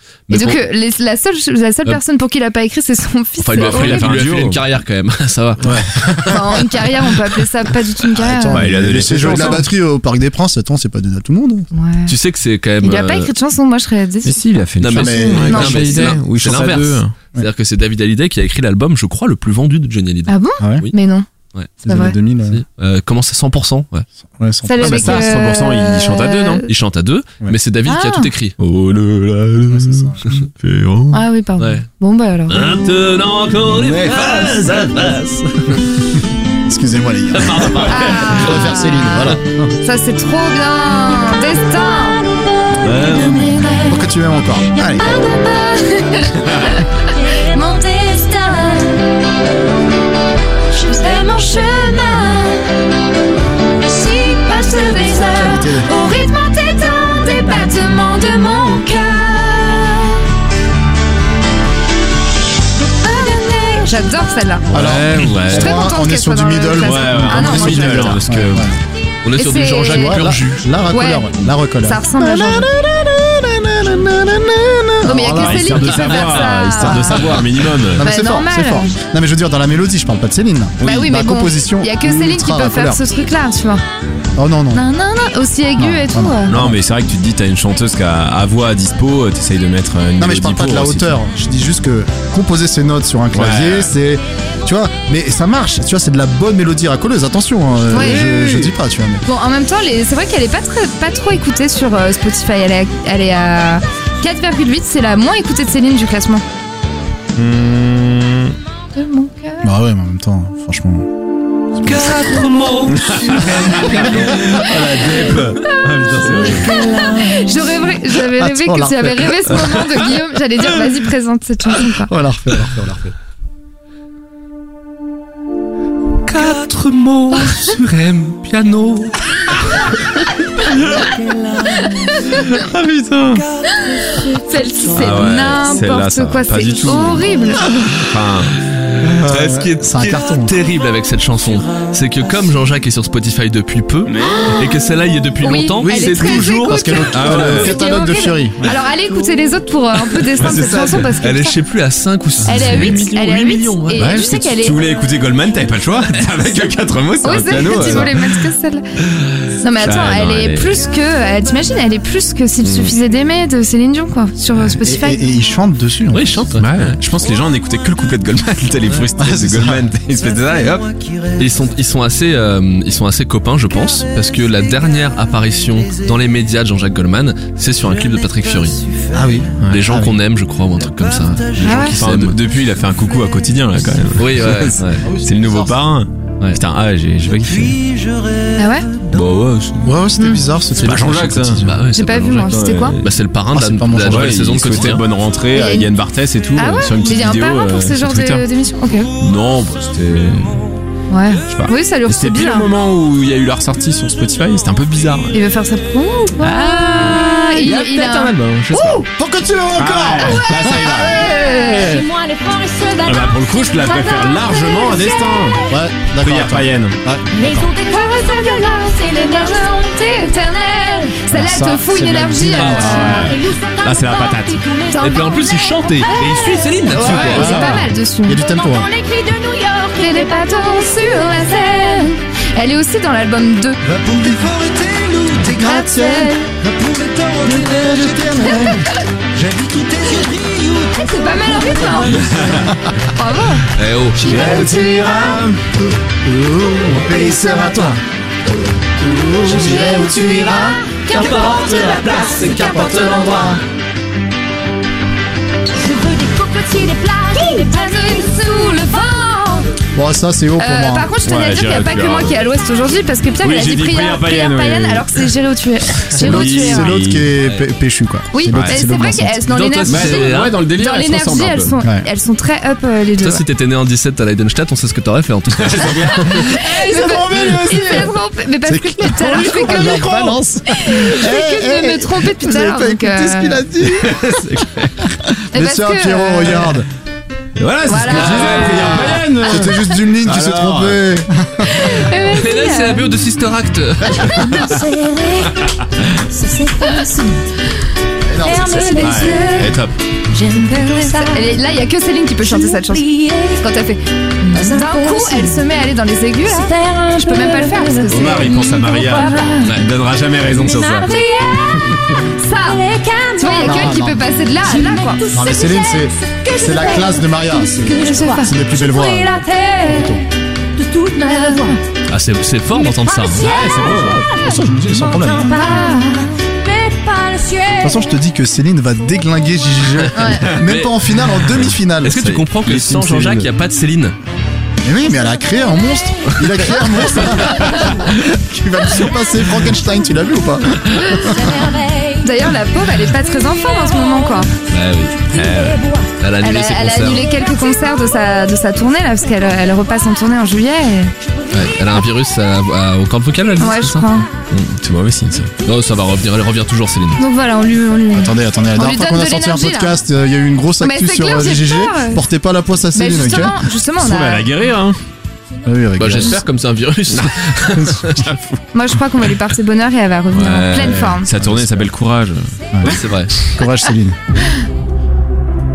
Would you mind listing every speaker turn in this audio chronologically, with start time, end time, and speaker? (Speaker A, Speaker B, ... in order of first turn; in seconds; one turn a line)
Speaker A: 0.3-0.6
Speaker B: 0.3-4.1
Speaker A: 3.4-6.4
Speaker C: 3.6-4.6
Speaker C: 5.6-6.4
Speaker B: 6.2-8.7
Speaker D: 8.2-11.7
Speaker C: 8.5-9.7
Speaker B: 11.7-12.1
Speaker A: 12.1-13.3
Speaker B: 12.8-14.5
Speaker C: 14.2-17.1
Speaker A: 14.8-20.9
Speaker D: 14.9-16.1
Speaker B: 15.4-15.9
Speaker B: 20.3-21.2
Speaker D: 20.6-20.9
Speaker D: 21.8-22.6
Speaker B: 21.9-22.1
Speaker A: 22.5-24.0
Speaker D: 24.4-25.4
Speaker B: 24.6-26.7
Speaker C: 24.8-26.6
Speaker A: 26.7-28.6
Speaker B: 27.9-28.3
Speaker C: 28.6-31.2
Speaker D: 29.7-30.2
Speaker B: 31.1-32.8
Speaker A: 31.6-31.8
Speaker A: 32.5-35.9
Speaker C: 33.7-34.6
Speaker D: 36.6-39.4
Speaker A: 37.3-38.4
Speaker B: 37.9-42.2
Speaker A: 39.2-39.6
Speaker E: 42.7-44.0
Speaker C: 42.8-43.6
Speaker D: 43.8-45.1
Speaker E: 44.8-45.8
Speaker B: 45.6-47.0
Speaker E: 47.0-49.2
Speaker E: 50.7-52.7
Speaker B: 50.9-51.4
Speaker E: 53.8-60.1
Speaker B: 55.1-55.4
Speaker D: 55.3-55.9
Speaker E: 62.8-64.0
Speaker B: 63.8-64.7
Speaker C: 64.7-65.9
Speaker D: 64.7-68.8
Speaker B: 65.5-68.2
Speaker C: 66.8-68.7
Speaker A: 69.2-70.7
Speaker B: 69.4-70.2
Speaker D: 69.9-76.1
Speaker B: 70.9-72.7
Speaker B: 75.0-77.3
Speaker C: 75.2-78.0
Speaker D: 76.8-83.0
Speaker B: 78.0-78.9
Speaker B: 80.8-83.8
Speaker D: 84.3-84.8
Speaker B: 84.7-86.5
Speaker D: 85.8-86.8
Speaker C: 86.5-91.1
Speaker D: 90.2-99.2
Speaker C: 93.3-93.9
Speaker B: 97.9-98.2
Speaker C: 97.9-98.7
Speaker B: 99.2-106.4
Speaker C: 107.3-108.6
Speaker B: 108.9-109.6
Speaker D: 109.6-111.1
Speaker A: 111.8-114.1
Speaker C: 112.9-117.3
Speaker D: 113.6-114.3
Speaker B: 116.4-122.1
Speaker D: 118.2-119.9
Speaker D: 122.1-123.1
Speaker A: 126.2-129.9
Speaker F: 130.9-132.3
Speaker B: 131.7-132.6
Speaker C: 132.5-133.4
Speaker F: 133.4-134.3
Speaker B: 133.8-137.6
Speaker C: 134.9-137.3
Speaker C: 138.1-138.6
Speaker D: 139.0-140.5
Speaker A: 139.2-147.0
Speaker C: 144.1-144.7
Speaker B: 145.4-151.6
Speaker D: 145.8-148.8
Speaker C: 147.1-147.7
Speaker C: 150.3-151.1
Speaker A: 151.2-154.1
Speaker C: 152.4-153.0
Speaker B: 152.4-154.8
Speaker C: 153.9-158.4
Speaker B: 157.2-158.8
Speaker B: 159.6-165.2
Speaker C: 159.8-160.8
Speaker C: 162.6-162.9
Speaker D: 164.8-166.5
Speaker A: 166.1-167.0
Speaker C: 166.6-170.8
Speaker D: 169.2-169.9
Speaker A: 171.4-178.8
Speaker D: 179.1-180.2
Speaker A: 179.7-182.4
Speaker C: 181.6-187.8
Speaker B: 181.6-182.0
Speaker A: 184.2-185.0
Speaker D: 184.9-185.8
Speaker F: 187.6-189.2
Speaker B: 188.6-188.9
Speaker C: 189.1-189.9
Speaker D: 189.8-191.8
Speaker C: 190.8-191.6
Speaker A: 191.6-195.0
Speaker B: 191.9-193.0
Speaker C: 192.4-193.1
Speaker D: 193.5-194.5
Speaker C: 194.1-198.4
Speaker B: 195.5-195.9
Speaker B: 196.5-199.1
Speaker C: 199.2-200.7
Speaker B: 201.1-202.7
Speaker C: 201.5-205.4
Speaker B: 205.3-208.3
Speaker C: 206.4-209.0
Speaker D: 208.7-212.0
Speaker C: 209.8-211.3
Speaker B: 211.2-212.0
Speaker E: 211.2-215.7
Speaker C: 213.0-215.6
Speaker D: 215.7-217.7
Speaker C: 216.2-217.0
Speaker E: 217.3-221.2
Speaker B: 217.9-223.3
Speaker D: 221.3-223.1
Speaker C: 222.0-224.6
Speaker E: 222.8-226.7
Speaker B: 224.9-225.4
Speaker A: 224.9-227.7
Speaker B: 226.0-226.5
Speaker D: 226.9-228.9
Speaker C: 227.0-227.8
Speaker B: 227.0-228.4
Speaker E: 228.3-232.1
Speaker B: 229.9-233.8
Speaker F: 233.8-235.5
Speaker D: 234.0-234.7
Speaker D: 235.2-236.3
Speaker B: 235.5-236.5
Speaker F: 236.6-238.8
Speaker D: 237.3-238.8
Speaker B: 238.4-238.9
Speaker F: 239.3-242.5
Speaker B: 240.9-243.7
Speaker C: 242.4-242.7
Speaker D: 242.4-242.9
Speaker A: 243.7-244.4
Speaker D: 244.2-248.0
Speaker F: 244.2-245.5
Speaker C: 244.2-244.7
Speaker F: 246.8-247.9
Speaker D: 249.0-250.7
Speaker F: 249.2-253.5
Speaker B: 249.4-252.4
Speaker A: 251.1-253.6
Speaker E: 255.8-259.1
Speaker B: 257.3-259.7
Speaker D: 259.9-261.1
Speaker B: 260.6-266.9
Speaker C: 261.2-262.4
Speaker C: 263.4-265.3
Speaker C: 266.0-267.3
Speaker D: 266.1-269.4
Speaker B: 268.3-273.4
Speaker C: 268.5-268.8
Speaker A: 269.5-270.6
Speaker C: 269.8-271.7
Speaker D: 271.8-272.1
Speaker A: 273.2-276.4
Speaker C: 275.6-278.1
Speaker B: 276.1-283.6
Speaker D: 278.6-284.3
Speaker C: 283.8-285.2
Speaker B: 285.5-286.8
Speaker D: 285.5-286.9
Speaker C: 287.6-291.0
Speaker B: 287.9-289.2
Speaker D: 288.1-292.1
Speaker A: 288.3-288.7
Speaker B: 291.6-293.1
Speaker A: 292.3-294.8
Speaker E: 294.4-295.6
Speaker E: 296.3-297.4
Speaker D: 298.2-299.4
Speaker E: 298.4-301.6
Speaker C: 298.9-299.9
Speaker B: 301.2-309.7
Speaker E: 302.4-303.7
Speaker E: 304.5-305.7
Speaker E: 306.4-309.7
Speaker C: 308.1-311.2
Speaker A: 309.6-309.9
Speaker E: 310.6-312.0
Speaker B: 312.4-315.3
Speaker E: 312.5-314.1
Speaker D: 313.6-314.3
Speaker E: 314.6-321.8
Speaker D: 315.3-320.2
Speaker B: 317.9-318.5
Speaker B: 321.2-321.8
Speaker A: 322.1-323.5
Speaker E: 322.7-328.2
Speaker C: 323.4-324.3
Speaker D: 323.8-325.7
Speaker B: 325.5-326.3
Speaker D: 327.8-332.4
Speaker B: 330.1-330.5
Speaker A: 330.4-334.1
Speaker C: 332.3-333.5
Speaker D: 334.8-341.7
Speaker E: 341.3-344.4
Speaker B: 342.2-344.5
Speaker A: 344.7-345.4
Speaker C: 345.3-345.9
Speaker E: 345.4-346.1
Speaker A: 346.2-347.3
Speaker B: 346.4-351.1
Speaker A: 351.5-354.1
Speaker B: 353.6-354.3
Speaker C: 354.5-355.5
Speaker A: 355.6-357.2
Speaker B: 357.2-360.0
Speaker D: 358.1-363.6
Speaker B: 360.8-362.2
Speaker B: 362.9-364.5
Speaker C: 364.0-365.0
Speaker D: 365.6-366.4
Speaker A: 366.0-368.2
Speaker C: 367.1-368.6
Speaker B: 368.7-371.3
Speaker C: 370.3-373.1
Speaker D: 371.4-371.9
Speaker D: 372.7-374.2
Speaker A: 372.8-373.3